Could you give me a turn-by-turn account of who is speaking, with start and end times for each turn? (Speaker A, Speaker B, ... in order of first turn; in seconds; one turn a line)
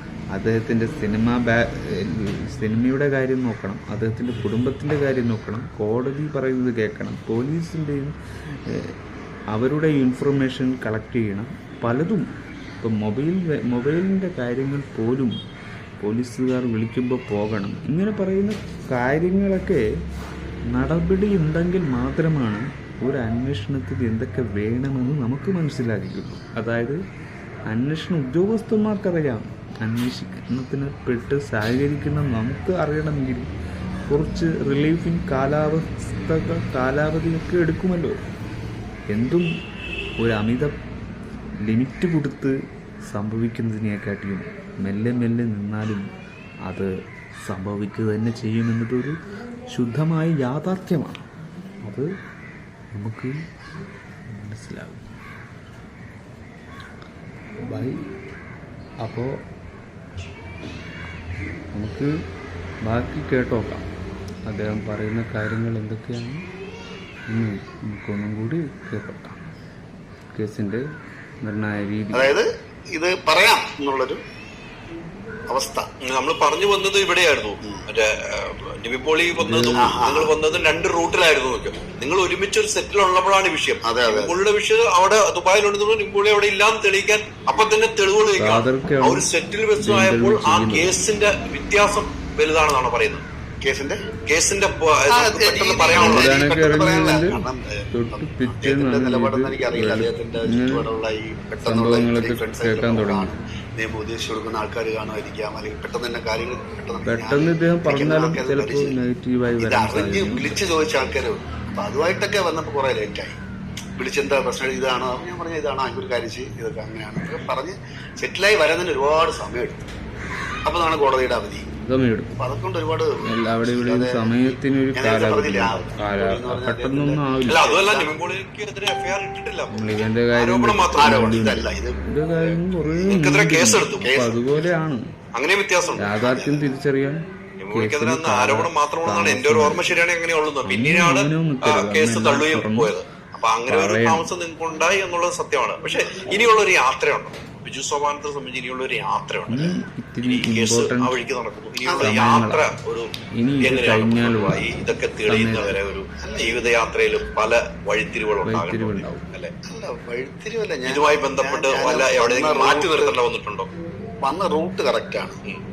Speaker A: 0.3-8.9
Speaker A: 9.5-12.3
Speaker A: 12.8-15.4
Speaker A: 16.0-19.8
Speaker A: 20.7-27.0
Speaker A: 27.7-33.5
Speaker A: 34.1-38.2
Speaker A: 39.1-39.5
Speaker A: 40.2-40.7
Speaker A: 41.6-42.6
Speaker A: 43.1-46.1
Speaker A: 46.6-46.9
Speaker A: 47.4-49.2
Speaker A: 49.7-51.3
Speaker A: 51.8-52.1
Speaker A: 52.9-53.4
Speaker A: 54.3-55.1
Speaker A: 57.6-58.1
Speaker A: 59.0-59.4
Speaker A: 61.7-62.1
Speaker A: 62.9-63.9
Speaker A: 64.5-66.4
Speaker A: 67.3-69.4
Speaker A: 70.3-70.8
Speaker A: 71.4-72.4
Speaker B: 72.1-74.2
Speaker B: 75.5-75.9
Speaker C: 76.0-93.2
Speaker A: 79.4-80.0
Speaker B: 79.8-80.3
Speaker B: 83.8-84.4
Speaker A: 88.4-89.3
Speaker A: 89.8-90.9
Speaker B: 93.6-94.0
Speaker C: 94.3-96.3
Speaker B: 95.1-109.0
Speaker A: 95.9-100.8
Speaker A: 101.6-103.3
Speaker A: 107.0-110.6
Speaker B: 109.6-113.4
Speaker B: 114.0-119.9
Speaker B: 120.6-121.7
Speaker A: 121.8-122.4
Speaker B: 122.4-128.2
Speaker A: 123.2-127.6
Speaker C: 127.5-131.4
Speaker A: 129.7-135.0
Speaker B: 130.9-133.2
Speaker C: 133.1-134.1
Speaker B: 134.0-134.4
Speaker C: 135.3-136.1
Speaker A: 136.0-140.0
Speaker B: 136.1-136.7
Speaker C: 137.6-153.1
Speaker A: 140.6-142.9
Speaker A: 143.7-144.3
Speaker A: 149.5-151.2
Speaker B: 151.8-152.1
Speaker A: 152.0-152.7
Speaker A: 153.3-155.7
Speaker C: 153.6-159.5
Speaker B: 155.6-156.7
Speaker A: 158.4-159.2
Speaker B: 159.7-163.1
Speaker C: 160.8-163.7
Speaker B: 164.2-165.4